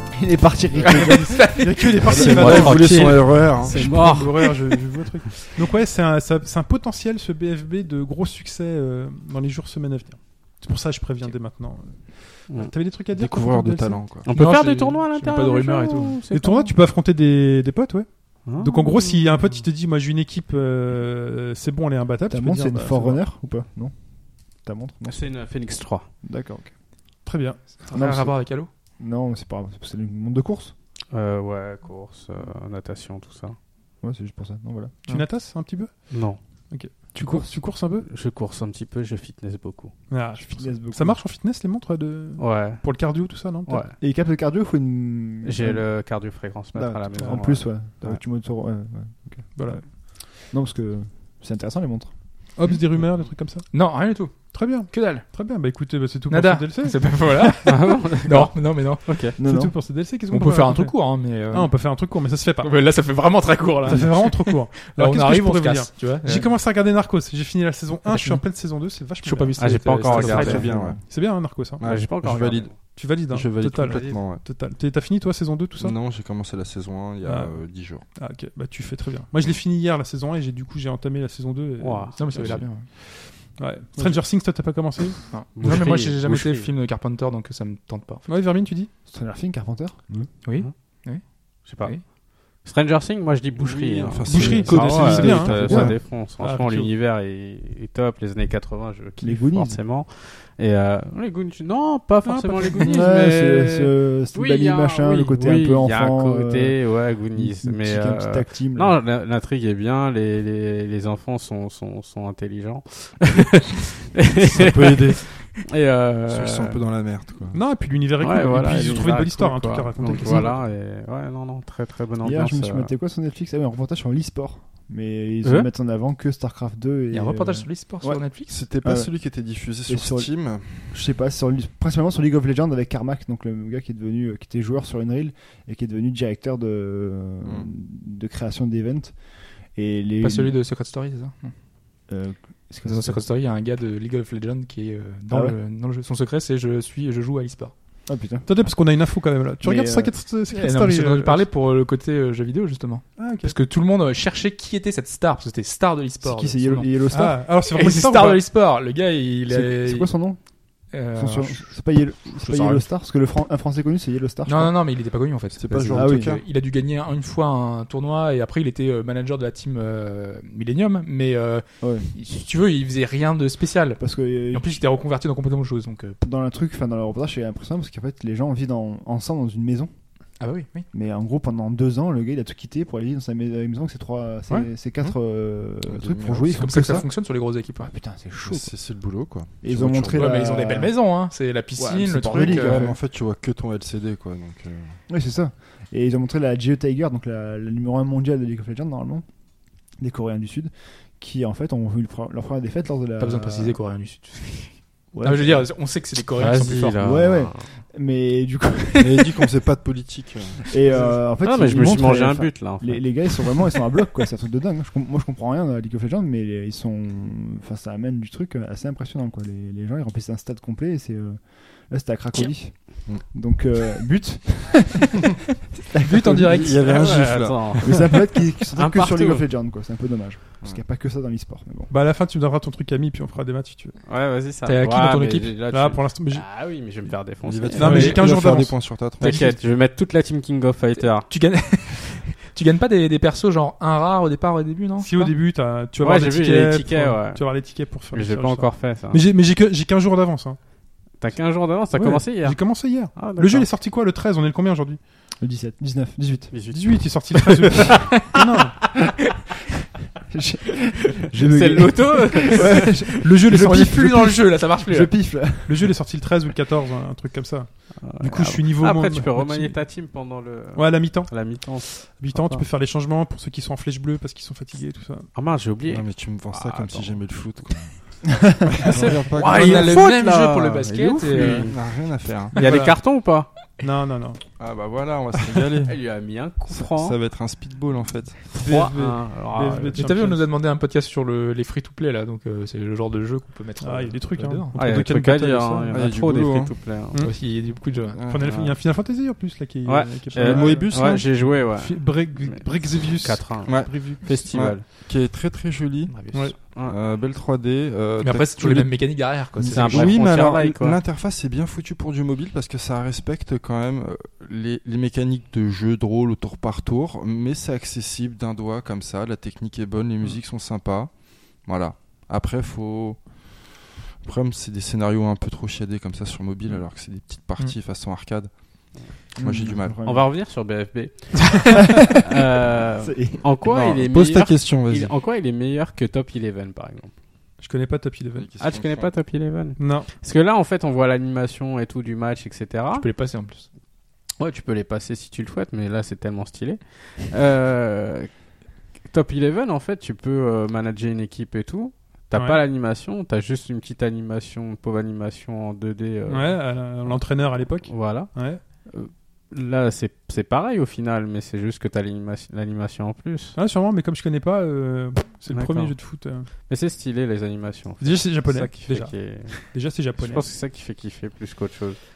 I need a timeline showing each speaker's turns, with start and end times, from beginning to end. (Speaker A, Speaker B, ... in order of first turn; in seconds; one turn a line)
Speaker A: 0.1-1.5
Speaker B: 0.8-3.1
Speaker C: 0.9-14.1
Speaker D: 2.0-3.8
Speaker E: 2.4-5.1
Speaker D: 13.1-14.3
Speaker E: 14.2-16.8
Speaker B: 14.3-16.2
Speaker C: 16.3-23.3
Speaker E: 18.4-19.5
Speaker A: 22.3-25.3
Speaker E: 25.1-26.1
Speaker A: 26.2-26.7
Speaker C: 27.2-27.8
Speaker B: 27.8-28.7
Speaker A: 27.9-28.4
Speaker A: 29.0-30.7
Speaker E: 31.1-33.6
Speaker A: 34.0-35.0
Speaker C: 35.1-38.1
Speaker E: 36.1-36.4
Speaker A: 37.1-37.6
Speaker E: 38.0-39.9
Speaker C: 40.1-43.9
Speaker A: 40.4-41.2
Speaker E: 42.4-43.1
Speaker E: 43.6-44.0
Speaker A: 44.0-46.1
Speaker E: 45.4-47.9
Speaker A: 46.7-52.5
Speaker C: 47.2-47.5
Speaker C: 49.5-50.2
Speaker C: 52.5-53.7
Speaker B: 53.7-55.3
Speaker C: 54.4-57.6
Speaker B: 56.3-59.4
Speaker E: 57.6-59.4
Speaker C: 59.3-62.7
Speaker A: 59.4-59.8
Speaker B: 60.3-61.9
Speaker B: 62.6-66.5
Speaker C: 63.8-71.8
Speaker B: 68.0-68.5
Speaker B: 69.2-70.6
Speaker E: 69.6-70.7
Speaker D: 70.1-71.3
Speaker A: 70.5-71.0
Speaker D: 71.8-74.5
Speaker E: 71.8-72.8
Speaker C: 72.8-76.0
Speaker D: 75.8-78.1
Speaker C: 77.2-85.3
Speaker E: 81.8-82.5
Speaker B: 82.2-82.9
Speaker D: 82.3-82.6
Speaker A: 84.0-84.3
Speaker B: 85.3-88.2
Speaker E: 85.5-86.7
Speaker C: 88.3-88.9
Speaker A: 89.1-90.3
Speaker B: 90.4-92.0
Speaker E: 91.6-116.8
Speaker D: 93.6-96.0
Speaker C: 94.3-96.9
Speaker A: 95.5-96.0
Speaker A: 99.2-99.8
Speaker A: 102.3-109.0
Speaker D: 114.4-115.6
Speaker D: 116.3-117.6
Speaker C: 117.5-120.6
Speaker E: 118.2-122.9
Speaker A: 122.2-140.6
Speaker E: 125.4-125.7
Speaker B: 127.1-128.6
Speaker D: 128.5-131.0
Speaker D: 137.4-137.7
Speaker B: 140.2-141.5
Speaker A: 142.1-143.2
Speaker B: 142.8-147.8
Speaker A: 145.3-145.6
Speaker A: 148.1-148.5
Speaker C: 148.4-151.5
Speaker A: 149.6-150.3
Speaker B: 150.5-160.3
Speaker C: 153.2-153.6
Speaker A: 156.2-157.6
Speaker C: 157.1-158.5
Speaker A: 159.5-160.4
Speaker B: 160.9-162.9
Speaker A: 161.2-164.8
Speaker B: 164.4-176.2
Speaker D: 165.5-166.4
Speaker A: 165.9-166.4
Speaker A: 171.8-172.1
Speaker A: 174.0-174.8
Speaker A: 176.2-180.0
Speaker B: 180.4-180.9
Speaker A: 180.9-191.0
Speaker D: 185.0-187.1
Speaker B: 186.5-188.0
Speaker D: 188.3-190.3
Speaker B: 190.1-193.0
Speaker A: 191.8-193.0
Speaker D: 192.2-195.0
Speaker A: 195.1-203.8
Speaker B: 203.2-207.0
Speaker A: 205.1-205.7
Speaker E: 206.4-207.7
Speaker A: 207.0-209.5
Speaker D: 209.0-210.6
Speaker A: 210.7-225.2
Speaker B: 210.8-211.1
Speaker E: 211.4-213.4
Speaker A: 225.9-226.8
Speaker B: 226.0-226.7
Speaker C: 226.1-226.5
Speaker D: 226.5-227.9
Speaker E: 226.8-228.0
Speaker A: 227.8-231.9
Speaker E: 228.8-229.5
Speaker C: 231.9-234.0
Speaker E: 234.1-238.4
Speaker B: 234.6-235.7
Speaker C: 235.7-237.0
Speaker D: 237.4-239.4
Speaker C: 237.8-239.6
Speaker E: 239.2-241.3
Speaker B: 241.0-245.3
Speaker C: 245.0-250.6
Speaker E: 246.0-249.2
Speaker E: 251.2-253.7
Speaker C: 251.9-255.0
Speaker A: 255.4-256.6
Speaker E: 256.5-257.6
Speaker C: 256.7-258.8
Speaker B: 257.9-258.4
Speaker A: 260.3-265.9
Speaker E: 261.4-263.4
Speaker C: 263.2-264.3
Speaker B: 263.4-265.5
Speaker C: 265.5-269.8
Speaker E: 268.0-272.6
Speaker C: 270.7-275.3
Speaker E: 275.3-277.6
Speaker D: 275.9-280.0
Speaker B: 278.9-281.7
Speaker E: 279.0-281.9
Speaker D: 281.3-282.6
Speaker E: 282.5-283.5
Speaker C: 282.6-283.0
Speaker C: 283.8-284.4
Speaker D: 284.6-286.0
Speaker E: 285.8-287.2
Speaker D: 286.7-288.6
Speaker C: 288.5-290.5
Speaker E: 288.6-290.1
Speaker B: 289.9-294.8
Speaker C: 293.8-296.1
Speaker E: 294.8-297.3
Speaker D: 295.9-297.0
Speaker C: 297.1-297.4
Speaker B: 297.2-298.2
Speaker D: 297.9-298.9
Speaker C: 298.2-304.6
Speaker E: 299.9-304.9
Speaker D: 300.4-301.4
Speaker D: 303.5-330.1
Speaker B: 306.1-306.6
Speaker C: 306.3-306.6
Speaker B: 308.2-310.2
Speaker E: 309.7-311.0
Speaker A: 329.4-330.3
Speaker E: 330.1-331.7
Speaker E: 332.2-337.1
Speaker A: 333.0-333.6
Speaker D: 333.6-335.2
Speaker C: 337.6-338.5
Speaker D: 338.4-339.3
Speaker E: 338.6-343.1
Speaker C: 339.8-340.1
Speaker B: 342.9-343.7
Speaker E: 344.4-348.3
Speaker E: 349.0-363.6
Speaker C: 352.3-352.6
Speaker C: 356.3-358.6
Speaker C: 363.6-366.5
Speaker E: 365.5-366.0
Speaker E: 366.7-372.0
Speaker C: 368.0-370.5